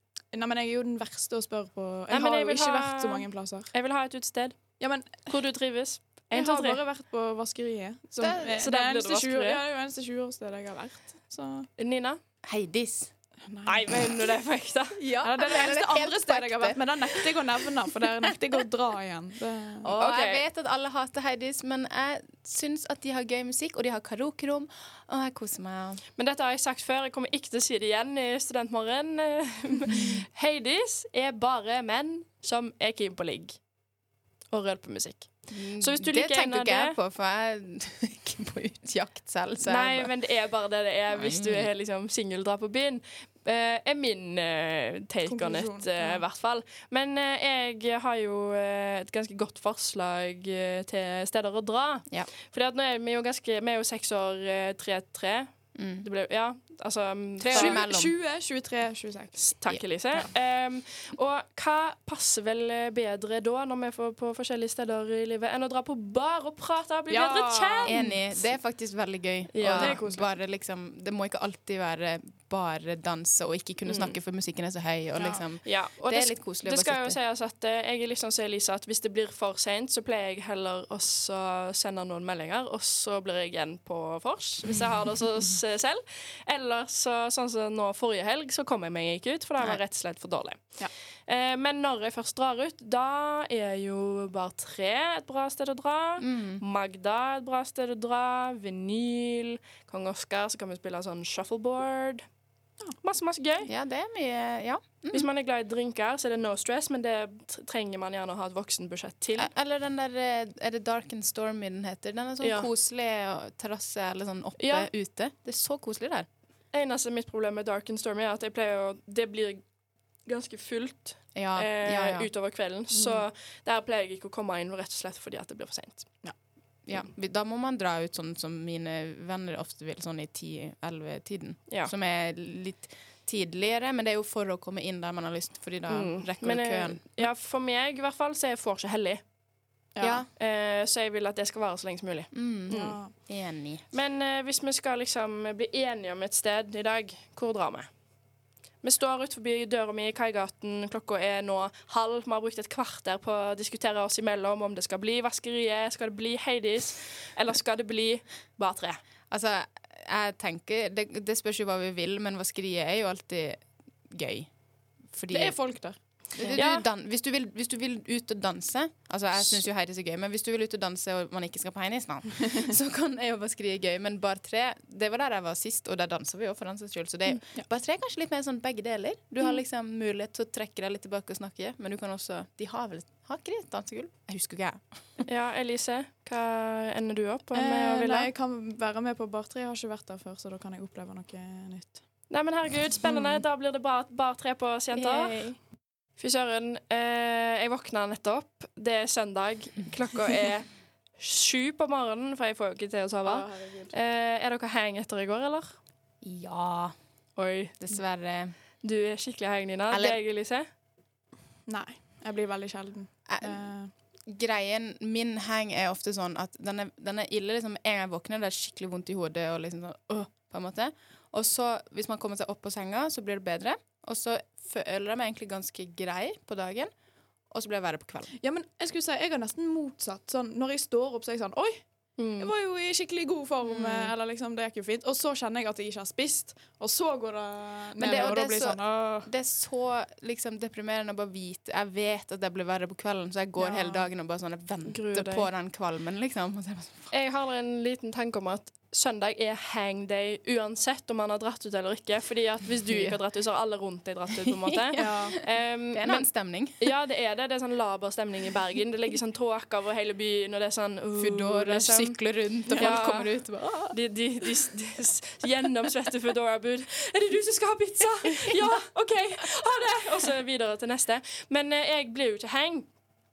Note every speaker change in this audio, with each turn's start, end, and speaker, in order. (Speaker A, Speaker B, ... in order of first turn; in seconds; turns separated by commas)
Speaker A: 0.3-3.7, Speaker B: 2.1-6.8, Speaker A: 4.8-5.3, Speaker A: 6.3-11.7, Speaker C: 8.2-8.6, Speaker B: 8.6-9.6, Speaker B: 11.8-12.2, Speaker C: 12.4-13.1, Speaker A: 13.4-14.1, Speaker B: 13.7-15.0, Speaker C: 15.0-17.4, Speaker A: 15.2-19.9, Speaker C: 19.8-26.0, Speaker B: 19.9-20.4, Speaker B: 26.2-33.6, Speaker B: 34.5-37.0, Speaker C: 35.5-40.1, Speaker B: 39.6-57.8, Speaker C: 41.1-41.7, Speaker A: 45.2-46.2, Speaker C: 55.8-56.0, Speaker C: 57.4-58.1, Speaker A: 57.5-59.5, Speaker B: 59.4-68.0, Speaker A: 67.1-68.4, Speaker C: 67.8-77.2, Speaker B: 69.5-70.0, Speaker A: 69.7-70.3, Speaker B: 73.8-74.2, Speaker A: 75.2-75.5, Speaker B: 75.6-102.3, Speaker C: 96.2-96.6, Speaker B: 103.0-103.7, Speaker C: 103.7-105.3, Speaker B: 105.1-109.5, Speaker C: 109.4-116.3, Speaker B: 112.4-112.7, Speaker B: 114.6-114.9, Speaker B: 116.7-119.7, Speaker B: 120.2-126.2, Speaker C: 121.3-122.3, Speaker C: 126.9-137.2, Speaker B: 135.9-139.2, Speaker A: 139.9-140.2, Speaker C: 140.0-140.3, Speaker B: 140.3-143.0, Speaker C: 142.3-143.8, Speaker A: 142.7-143.1, Speaker B: 143.9-147.9, Speaker B: 148.8-159.0, Speaker C: 159.3-164.5, Speaker C: 165.1-165.8, Speaker A: 165.3-166.5, Speaker C: 166.4-185.1, Speaker B: 166.4-166.9, Speaker B: 185.2-188.3, Speaker A: 187.6-192.1, Speaker B: 192.3-195.6, Speaker C: 193.1-193.4, Speaker C: 194.9-195.5, Speaker B: 196.2-205.8, Speaker A: 203.2-203.9, Speaker C: 206.2-207.0, Speaker B: 207.4-207.8, Speaker C: 207.8-208.6, Speaker B: 208.8-210.7, Speaker C: 209.9-210.2, Speaker A: 211.7-213.9, Speaker C: 213.3-213.6, Speaker C: 214.3-226.9, Speaker C: 227.5-228.3, Speaker A: 228.4-231.9, Speaker B: 232.2-232.5, Speaker A: 232.4-239.3, Speaker C: 233.7-234.1, Speaker C: 238.0-247.1, Speaker A: 243.6-244.1, Speaker B: 244.9-245.5, Speaker B: 247.1-272.9, Speaker C: 252.9-253.2, Speaker C: 254.4-256.9, Speaker A: 255.0-255.4, Speaker C: 261.2-264.0